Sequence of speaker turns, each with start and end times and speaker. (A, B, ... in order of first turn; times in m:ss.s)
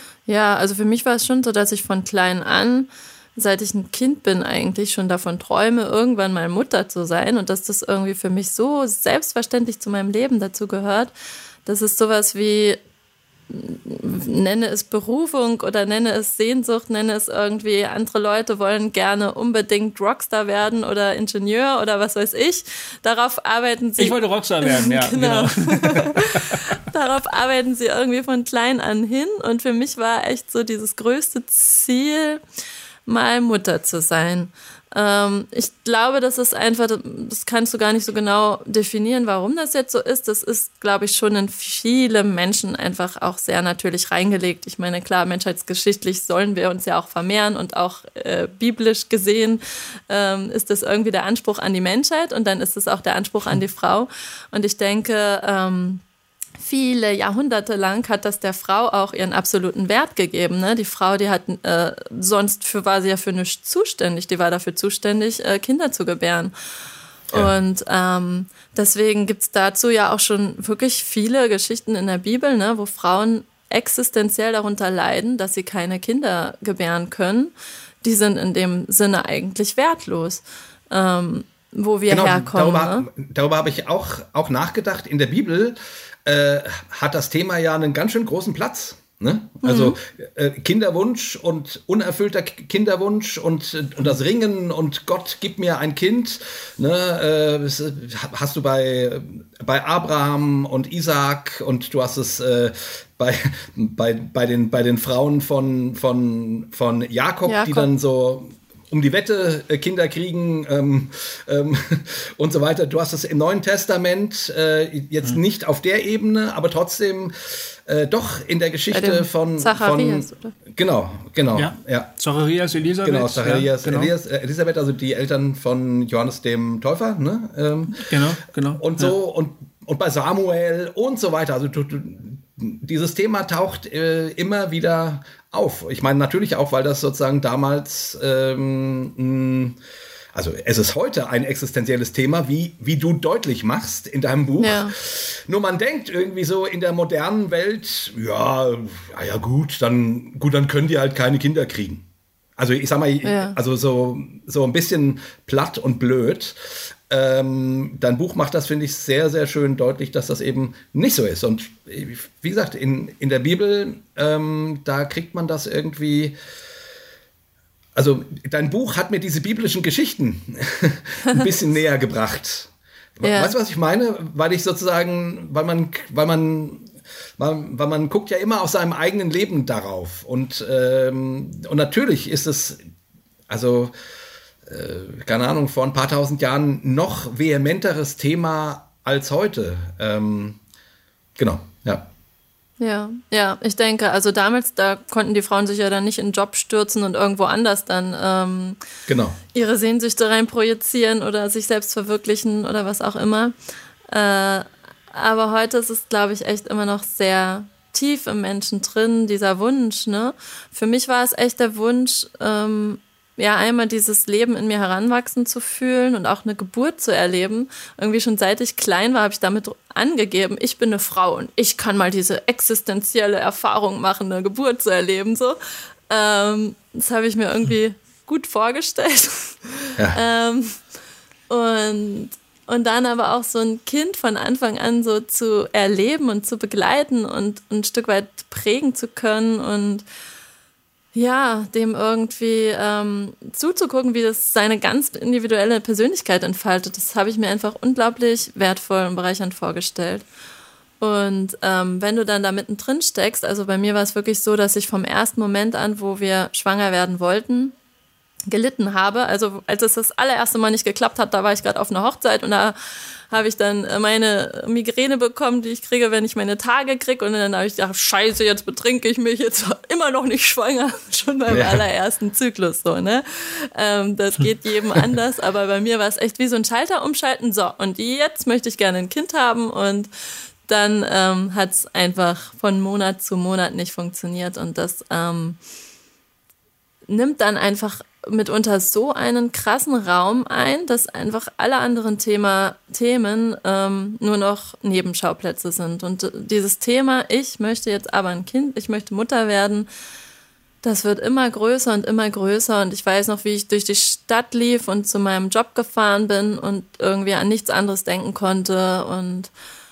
0:00.3-0:11.1 A
0:11.7-0:12.8 A
0:13.5-0:32.4 A
0:24.0-0:26.6 B
0:33.1-0:56.0 A
0:56.6-1:06.5 A
1:07.3-1:23.1 A
1:22.1-2:02.1 C
1:29.6-1:30.0 A
1:47.5-1:47.9 A
1:58.9-2:00.6 A
2:01.5-2:04.1 B
2:03.0-2:08.1 C
2:07.9-2:09.1 B
2:08.8-2:19.8 C
2:20.3-2:32.0 C
2:24.6-2:24.9 A
2:32.6-2:46.4 C
2:33.2-2:33.6 A
2:48.0-3:02.8 C
2:53.2-2:53.6 A
3:03.5-3:03.9 C
3:04.7-3:10.6 C
3:11.4-3:12.1 C
3:12.8-3:18.8 A
3:19.1-3:19.4 C
3:19.5-3:23.5 A
3:24.1-3:45.6 A
3:46.1-3:50.8 A
3:51.5-4:00.0 A
4:01.2-4:10.2 A
4:11.0-4:17.8 A
4:18.5-4:22.8 A
4:23.3-4:40.1 A
4:31.5-4:31.8 C
4:40.7-4:45.6 A
4:47.1-4:59.9 A
5:00.8-5:09.5 A